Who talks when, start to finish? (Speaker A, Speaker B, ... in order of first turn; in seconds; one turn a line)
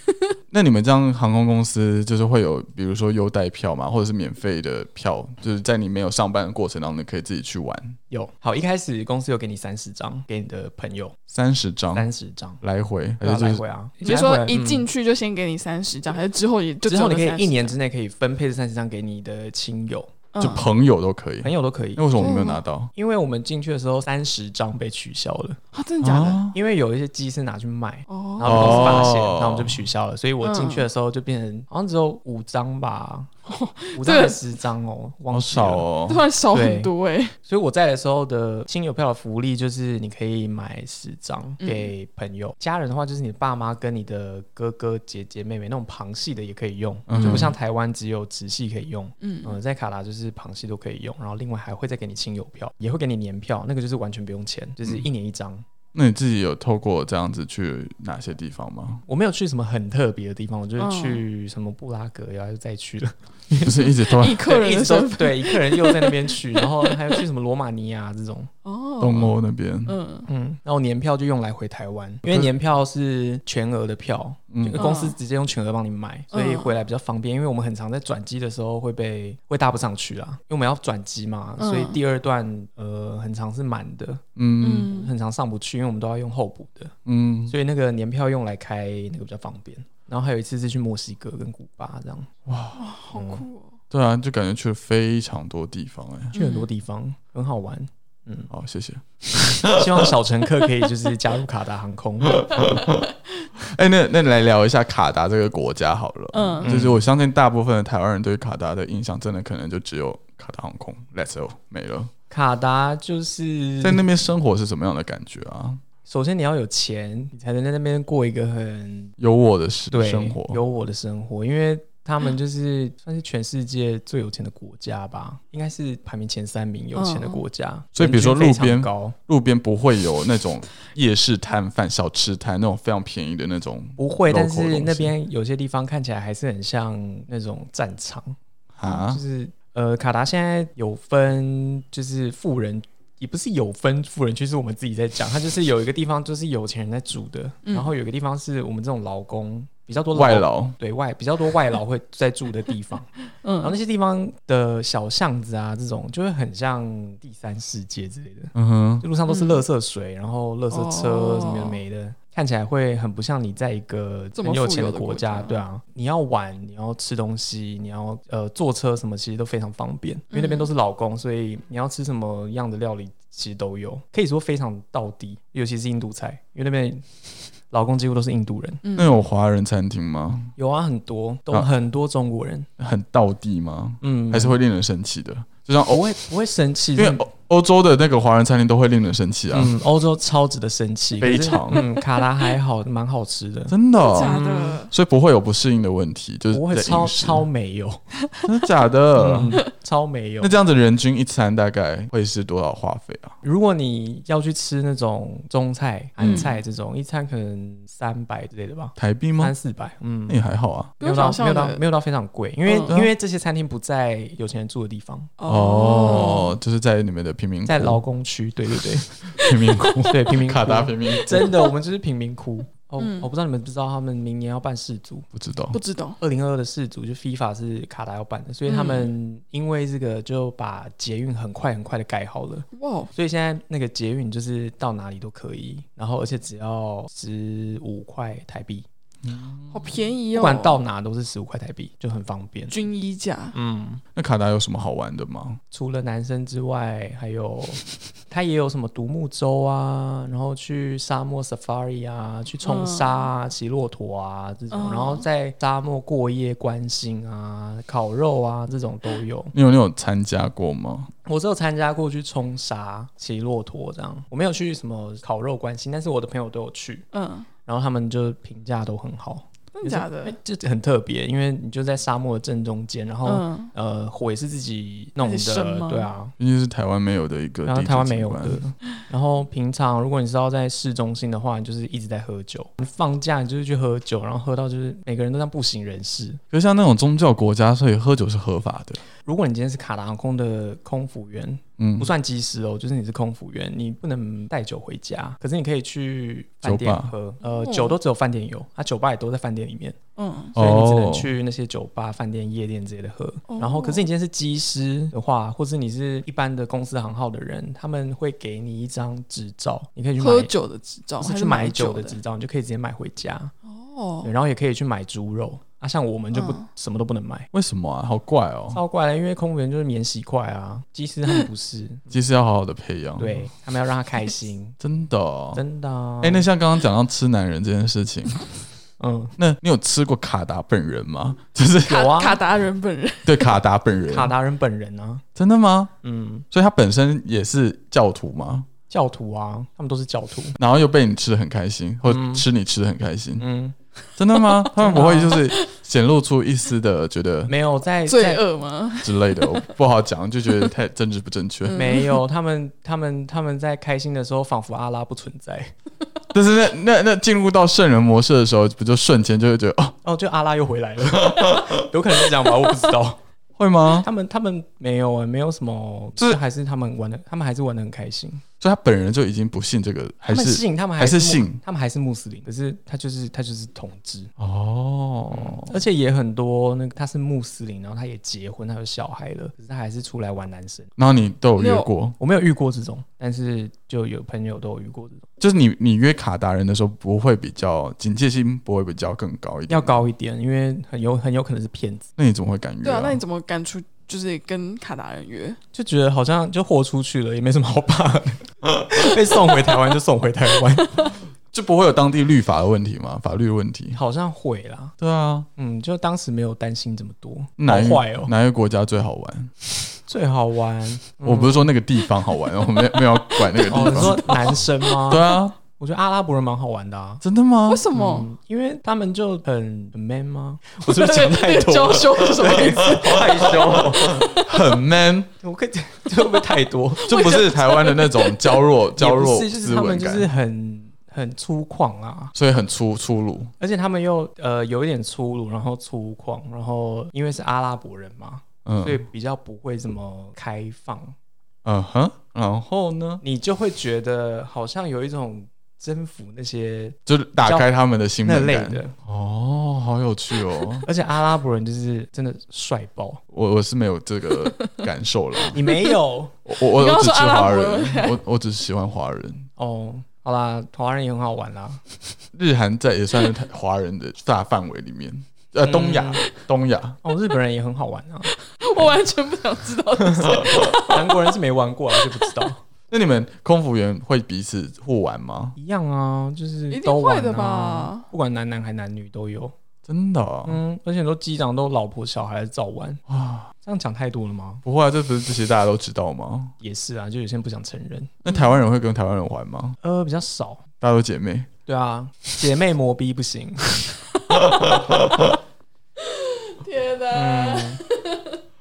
Speaker A: 0.5-8.0
Speaker B: 8.1-11.2
Speaker A: 11.3-12.1
Speaker B: 11.9-12.6
Speaker A: 12.6-13.6
Speaker B: 13.2-14.9
Speaker C: 14.0-17.7
Speaker B: 16.8-20.2
Speaker C: 20.3-20.7
Speaker A: 20.4-22.9
Speaker B: 21.4-22.3
Speaker C: 22.2-22.6
Speaker B: 22.9-25.6
Speaker C: 25.7-26.4
Speaker A: 26.0-26.6
Speaker B: 26.4-33.3
Speaker C: 28.1-29.2
Speaker A: 28.4-29.8
Speaker C: 30.4-30.9
Speaker C: 33.5-34.4
Speaker B: 33.9-35.9
Speaker A: 35.3-36.2
Speaker C: 36.1-37.3
Speaker B: 36.5-55.6
Speaker C: 41.6-41.9
Speaker A: 47.1-47.5
Speaker C: 47.1-47.5
Speaker C: 49.2-49.6
Speaker A: 55.9-59.0
Speaker B: 59.1-68.5
Speaker C: 60.8-61.2
Speaker A: 63.6-64.4
Speaker C: 64.0-67.2
Speaker C: 68.7-69.3
Speaker A: 69.0-70.0
Speaker C: 69.9-70.3
Speaker B: 70.3-84.2
Speaker A: 74.5-74.8
Speaker C: 74.8-75.2
Speaker C: 76.3-76.7
Speaker C: 81.6-82.0
Speaker A: 84.4-84.9
Speaker C: 84.6-85.1
Speaker B: 84.8-86.9
Speaker A: 87.1-87.5
Speaker B: 87.5-92.3
Speaker A: 92.5-92.8
Speaker C: 92.8-93.7
Speaker B: 93.1-93.5
Speaker A: 93.9-96.3
Speaker C: 96.3-96.7
Speaker B: 96.3-98.5
Speaker A: 98.5-100.1
Speaker B: 99.6-102.7
Speaker A: 102.4-103.0
Speaker A: 103.6-112.1
Speaker C: 106.3-106.7
Speaker B: 106.6-107.0
Speaker B: 112.3-114.0
Speaker A: 113.8-115.8
Speaker B: 116.0-119.2
Speaker A: 119.2-120.6
Speaker B: 119.9-129.2
Speaker C: 127.0-127.4
Speaker A: 128.0-135.1
Speaker B: 134.0-153.1
Speaker A: 138.8-139.2
Speaker C: 147.7-147.9
Speaker A: 150.1-150.8
Speaker C: 153.4-153.7
Speaker B: 153.6-177.1
Speaker A: 158.6-159.1
Speaker C: 159.3-159.6
Speaker C: 160.7-161.8
Speaker C: 164.4-165.6
Speaker C: 170.3-170.7
Speaker B: 177.7-178.8
Speaker C: 178.8-179.2
Speaker A: 178.9-180.5
Speaker B: 180.6-182.7
Speaker A: 182.8-186.2
Speaker B: 184.0-184.6
Speaker B: 185.9-187.2
Speaker A: 186.9-189.7
Speaker B: 189.5-194.8
Speaker A: 191.2-191.9
Speaker A: 193.7-197.5
Speaker C: 194.0-194.9
Speaker B: 196.5-198.0
Speaker A: 198.4-199.6
Speaker B: 199.1-200.5
Speaker A: 200.4-203.4
Speaker B: 203.4-210.4
Speaker A: 206.2-206.5
Speaker C: 206.2-206.6
Speaker A: 209.0-209.5
Speaker A: 210.3-210.9
Speaker C: 211.0-211.8
Speaker B: 211.0-215.3
Speaker C: 212.7-212.9
Speaker C: 215.4-216.6
Speaker A: 215.5-218.0
Speaker B: 217.7-219.1
Speaker A: 219.2-221.6
Speaker B: 220.1-225.3
Speaker C: 223.0-223.3
Speaker A: 225.3-225.8
Speaker C: 225.7-226.2
Speaker B: 226.2-238.9
Speaker C: 228.7-229.1
Speaker C: 232.8-233.1
Speaker A: 239.2-239.9
Speaker C: 239.7-240.8
Speaker B: 240.3-242.8
Speaker C: 242.7-243.6
Speaker B: 243.5-244.0
Speaker A: 244.2-245.6
Speaker B: 245.7-259.5
Speaker C: 252.6-253.3
Speaker C: 254.7-255.2
Speaker A: 259.5-261.1
Speaker B: 261.2-267.1
Speaker C: 267.1-267.5
Speaker B: 267.7-276.3
Speaker C: 269.7-270.4
Speaker C: 273.2-273.7
Speaker C: 275.2-276.1
Speaker A: 276.4-278.6
Speaker B: 277.7-286.4
Speaker A: 286.5-289.0
Speaker B: 289.2-300.0
Speaker A: 291.8-292.1
Speaker A: 296.6-297.1
Speaker C: 297.5-297.9
Speaker C: 300.2-300.5
Speaker B: 300.6-310.5
Speaker A: 300.6-301.3
Speaker C: 303.5-304.1
Speaker C: 310.2-312.2
Speaker B: 311.2-313.5
Speaker C: 313.7-314.3
Speaker B: 314.2-317.5
Speaker C: 316.3-316.7
Speaker A: 317.5-318.8
Speaker B: 318.7-322.1
Speaker A: 322.1-323.4
Speaker B: 323.2-324.8
Speaker A: 324.8-325.6
Speaker B: 325.5-326.5
Speaker A: 326.2-328.4
Speaker B: 329.0-329.4
Speaker A: 329.4-332.0
Speaker B: 331.9-332.4
Speaker C: 331.9-333.6
Speaker A: 333.2-334.3
Speaker B: 334.1-335.2
Speaker A: 335.4-335.9
Speaker B: 336.0-336.5
Speaker A: 336.5-338.7
Speaker B: 338.9-340.6
Speaker A: 340.6-343.4
Speaker B: 342.1-342.4
Speaker B: 343.4-343.8
Speaker A: 344.2-347.5
Speaker C: 344.5-345.6
Speaker B: 344.8-345.4
Speaker B: 347.5-348.4
Speaker C: 348.1-349.7
Speaker A: 349.0-351.8
Speaker C: 351.7-352.2
Speaker B: 351.7-355.7
Speaker A: 356.3-360.0
Speaker B: 360.0-363.2
Speaker A: 361.4-361.7
Speaker A: 363.6-364.1
Speaker B: 364.0-368.4
Speaker A: 368.6-371.6
Speaker B: 370.3-374.3
Speaker A: 374.4-375.8
Speaker B: 375.3-380.9
Speaker A: 381.0-382.2
Speaker C: 381.6-381.9
Speaker B: 382.2-385.3
Speaker A: 385.4-390.0
Speaker B: 389.7-392.1
Speaker A: 392.2-393.2
Speaker C: 392.8-395.6
Speaker B: 395.7-401.2
Speaker A: 401.5-404.0
Speaker B: 403.9-404.9
Speaker A: 405.0-405.5
Speaker B: 405.6-408.3
Speaker A: 407.6-409.5
Speaker B: 410.1-411.7
Speaker A: 411.2-414.6
Speaker C: 413.4-414.6
Speaker B: 413.7-417.2
Speaker A: 415.1-415.6
Speaker A: 417.2-417.9
Speaker C: 417.7-418.3
Speaker B: 417.9-424.3
Speaker C: 420.9-424.3
Speaker A: 423.6-425.3
Speaker B: 425.4-427.4
Speaker C: 427.0-428.4
Speaker A: 427.1-430.3
Speaker B: 429.0-432.3
Speaker A: 432.4-433.5
Speaker B: 433.6-441.1
Speaker A: 438.6-439.0
Speaker A: 441.6-443.2
Speaker B: 443.2-447.7
Speaker A: 447.1-450.9
Speaker B: 448.2-448.9
Speaker B: 450.9-453.2
Speaker A: 453.3-455.6
Speaker B: 455.5-456.3
Speaker C: 455.7-455.9
Speaker A: 456.5-459.5
Speaker C: 456.6-458.2
Speaker B: 459.6-461.8
Speaker A: 462.3-467.0
Speaker B: 465.6-466.2
Speaker B: 467.0-468.3
Speaker C: 468.5-471.2
Speaker B: 470.0-472.6
Speaker A: 472.9-475.6
Speaker B: 475.6-479.6
Speaker C: 476.7-478.1
Speaker A: 479.9-480.6
Speaker B: 480.5-483.0
Speaker A: 483.1-483.5
Speaker B: 483.6-484.6
Speaker A: 484.6-486.5
Speaker B: 486.6-488.2
Speaker A: 488.2-489.8
Speaker B: 489.8-490.6
Speaker A: 490.8-491.5
Speaker B: 491.7-493.9
Speaker A: 494.4-495.3
Speaker C: 496.0-498.4
Speaker B: 497.1-497.8